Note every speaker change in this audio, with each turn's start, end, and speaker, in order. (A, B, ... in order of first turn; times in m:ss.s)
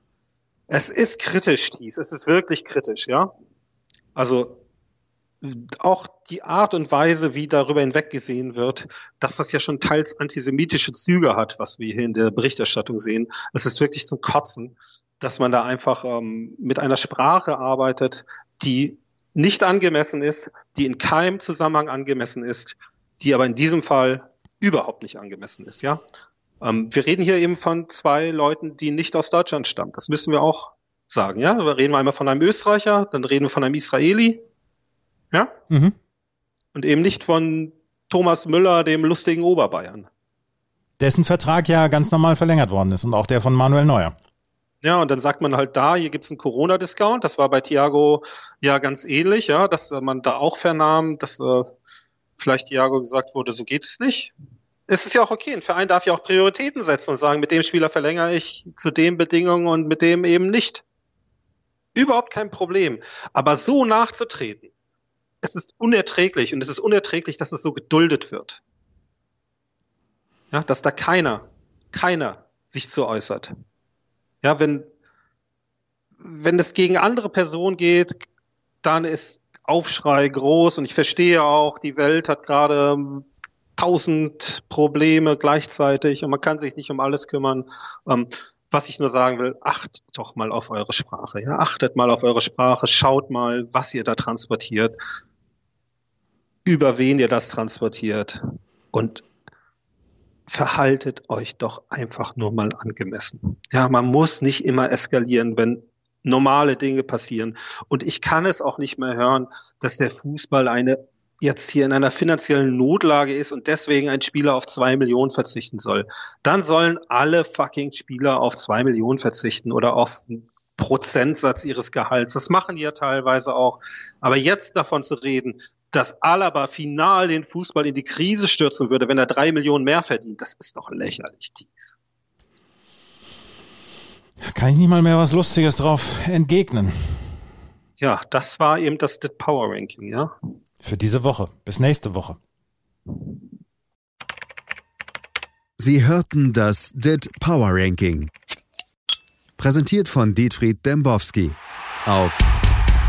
0:00.7-0:03.3 A
0:04.1-0:04.6 A
0:05.4-0:26.0 A
0:26.6-0:34.4 A
0:35.7-0:35.9 B
0:36.7-0:40.1 A
0:41.0-0:44.1 B
0:44.8-0:51.7 A
0:52.4-0:54.3 A
0:54.9-1:00.8 A
1:02.0-1:04.7 A
1:05.4-1:08.6 A
1:10.5-1:13.5 A
1:14.4-1:14.9 A
1:16.2-1:18.2 A
1:18.8-1:35.0 A
1:36.6-1:39.2 A
1:40.5-2:12.0 A
2:14.4-2:17.3 B
2:18.0-2:20.3 A
2:20.8-2:22.4 B
2:25.8-2:28.3 C
2:29.6-2:32.4 C